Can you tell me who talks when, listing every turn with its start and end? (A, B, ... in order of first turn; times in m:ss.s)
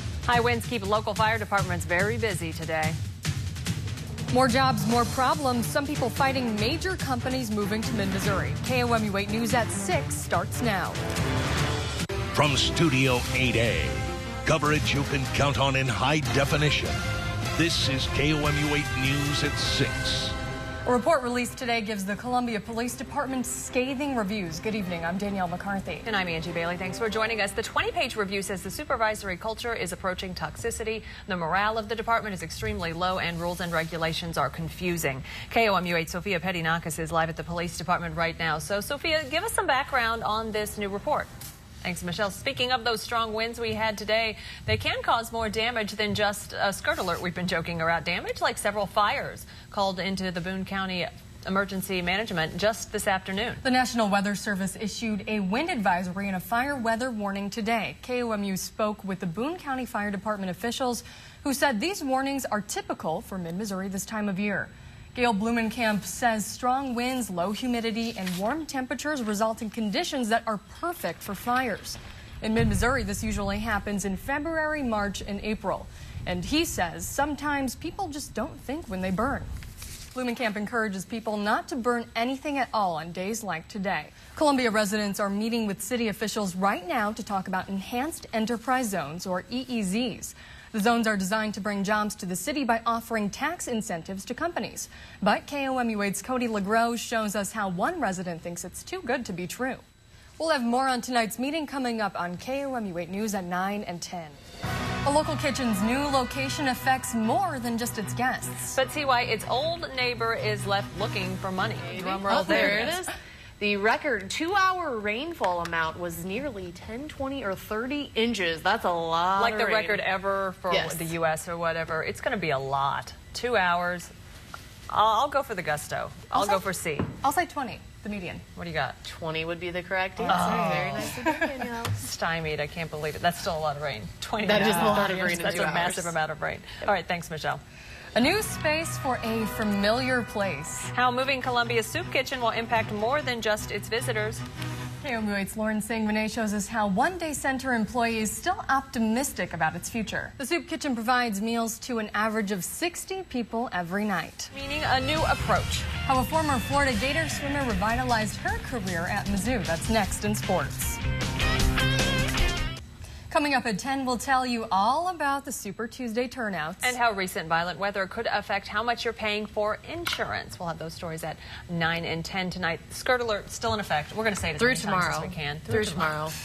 0:00.2-0:03.0 A
0:04.3-0:11.0 B
0:12.3-0:17.0 C
0:17.6-0:20.3 C
0:20.8-0:26.0 B
0:26.0-0:41.3 A
0:41.8-0:53.6 A
0:53.6-1:19.5 B
1:20.1-1:39.8 B
1:40.4-1:44.4 B
1:45.0-1:48.8 B
1:48.7-1:53.0 A
1:51.8-2:00.0 D
1:59.4-2:04.1 A
2:00.7-2:01.1 D
2:04.9-2:07.1 A
2:06.3-2:06.6 B
2:07.2-2:08.4 B
2:08.6-2:09.0 A
2:09.0-2:12.0 D
2:10.2-2:10.5 B
2:10.2-2:11.2 A
2:11.2-2:11.4 B
2:12.0-2:17.6 A
2:14.4-2:16.1 D
2:18.1-2:20.9 B
2:20.9-2:24.4 A
2:25.0-2:34.5 B
2:34.5-2:35.9 A
2:36.0-2:41.0 B
2:43.3-2:47.0 B
2:46.8-2:56.2 A
2:54.6-2:56.3 D